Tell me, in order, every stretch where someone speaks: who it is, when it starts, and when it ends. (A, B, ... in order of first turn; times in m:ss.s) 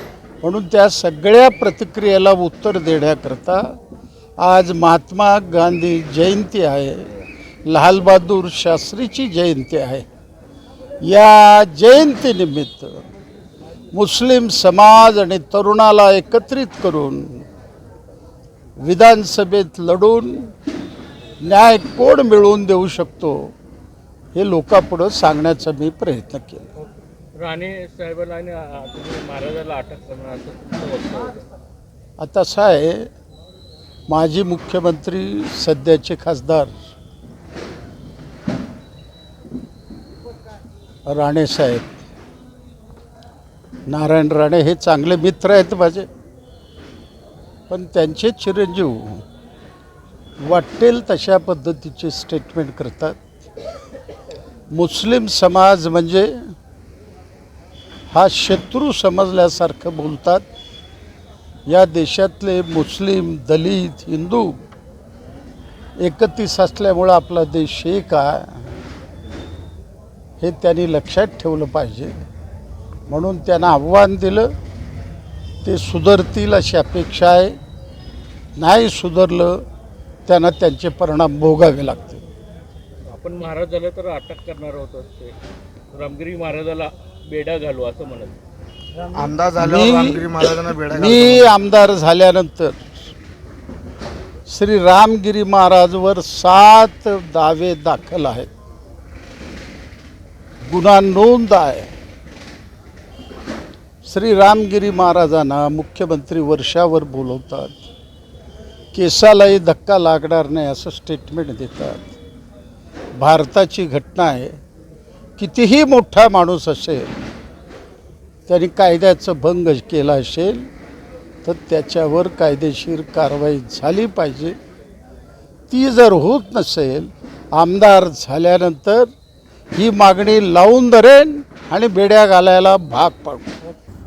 0:00.4-0:03.6 A
0:04.4-0:07.1 A
0:07.7-0:10.1 A
0:11.0-0:13.0 A
0:13.9-0:17.4 A
0:18.8-0:20.5 A
0:21.4-0:23.4 A
0:24.4-0:26.7 A
0:27.4-0:31.5 B
0:32.2-0:33.1 A
0:34.1-0:36.8 A
0:41.1-0:41.9 A
0:43.9-0:46.1 A
0:47.7-0:49.2 A
0:50.4-0:53.2 A
0:54.7-0:56.3 A
0:58.1-1:00.4 A
1:01.7-1:04.6 A
1:06.0-1:08.7 A
1:10.4-1:12.1 A
1:13.1-1:14.5 A
1:15.6-1:17.6 A
1:18.6-1:19.6 A
1:20.3-1:22.2 A
1:23.1-1:25.3 B
1:25.9-1:28.3 B
1:29.1-1:31.5 C
1:29.6-1:32.9 A
1:34.5-1:38.5 A
1:40.7-1:41.9 A
1:44.0-1:47.8 A
1:48.9-1:52.1 A
1:53.2-1:54.6 A
1:55.4-1:57.1 A
1:58.5-2:00.7 A
2:01.4-2:04.6 A
2:05.7-2:09.1 A
2:09.8-2:13.5 A